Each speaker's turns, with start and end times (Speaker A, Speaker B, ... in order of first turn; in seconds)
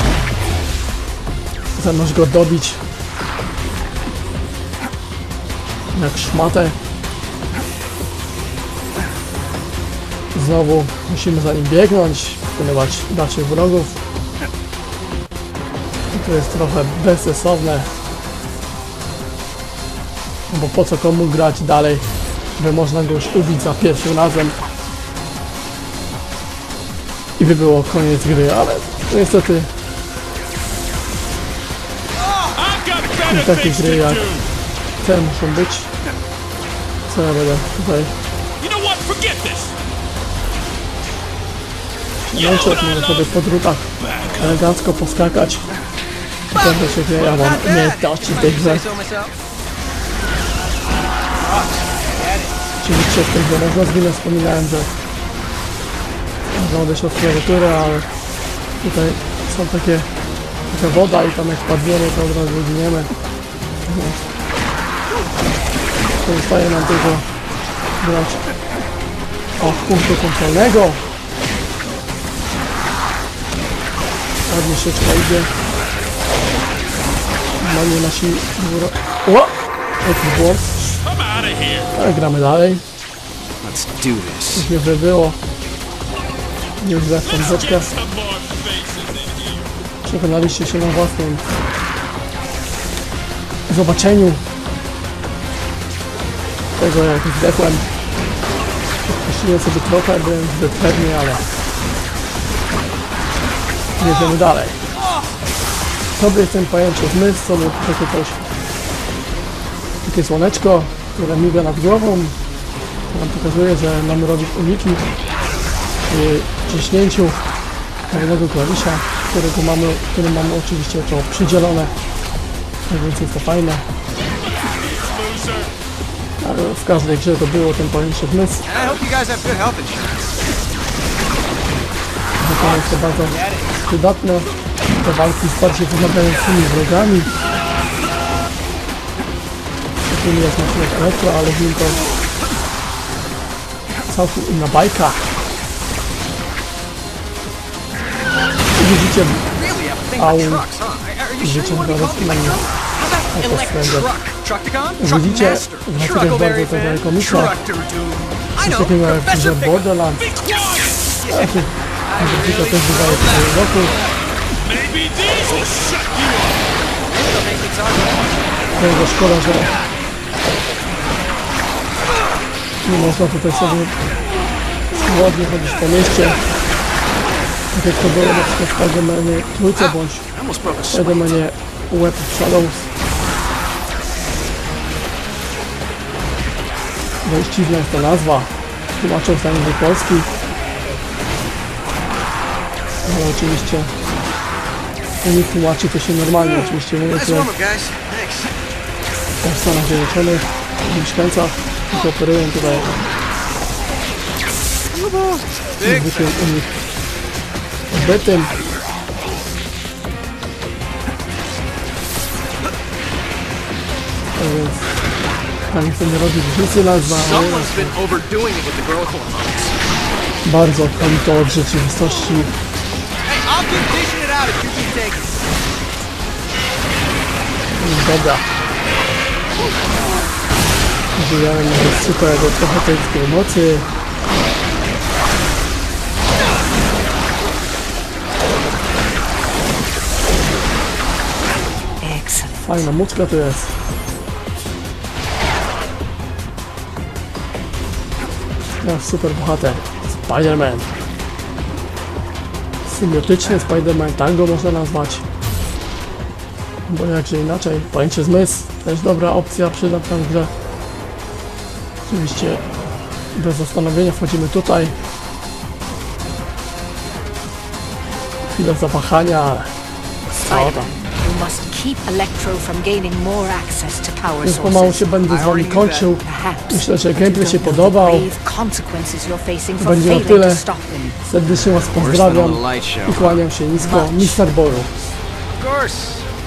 Speaker A: 1.8-2.8, 5.9-6.8, 10.3-13.9, 16.1-17.9, 20.5-22.1, 22.6-24.6, 27.4-29.7, 33.3-34.2, 35.0-35.9, 37.1-38.1, 42.3-45.7, 46.5-48.9, 52.8-55.0, 56.5-58.1, 58.8-60.1, 60.7-63.1, 63.9-64.2, 66.2-67.3, 68.0-68.4, 69.6-71.0, 74.5-75.5, 77.6-80.7, 81.9-82.8, 84.5-85.4, 86.8-87.9, 90.0-91.4, 93.7-94.4, 96.8-97.8, 99.1-101.5, 104.0-104.8, 106.1-108.4, 110.0-112.4, 113.1-115.0, 116.1-117.4, 118.1-121.9, 122.9-123.8, 126.4-128.7, 132.4-134.5, 135.0-137.3, 140.1-142.0, 144.1-145.3, 148.8-149.4, 150.2-150.7, 151.4-152.6, 153.3-154.1, 155.0-157.6, 158.6-160.3, 161.3-164.0, 168.8-169.8, 172.8-173.9, 174.9-176.4, 177.7-180.3, 180.9-182.9, 187.2-190.3, 193.1-193.9, 195.2-197.5, 199.4-203.0, 205.8-206.7, 207.9-208.5, 214.4-214.9, 215.7-218.0, 220.4-222.5, 227.8-228.4, 231.2-233.9, 242.6-243.8, 248.8-250.9, 252.8-255.2, 256.9-260.5, 262.1-262.6, 263.4-265.0, 268.5-269.7, 270.3-270.9, 274.4-278.3, 279.8-280.6, 281.3-284.9
Speaker B: 32.5-34.5, 38.6-39.8, 42.3-43.4, 44.0-44.6, 80.8-81.9, 87.2-89.9, 124.4-125.7, 160.2-161.2, 164.6-166.7
Speaker C: 46.5-49.3, 51.4-52.6, 83.6-84.7, 128.7-130.3, 132.6-133.8, 149.5-159.9, 161.1-164.2, 167.1-168.8, 169.5-169.9, 179.8-181.4, 196.5-198.6, 204.9-206.3, 217.1-219.8, 223.2-225.4, 275.2-276.1, 281.9-283.4, 285.5-286.3
Speaker D: 242.0-242.9, 270.5-275.1, 276.2-281.2, 283.8-284.4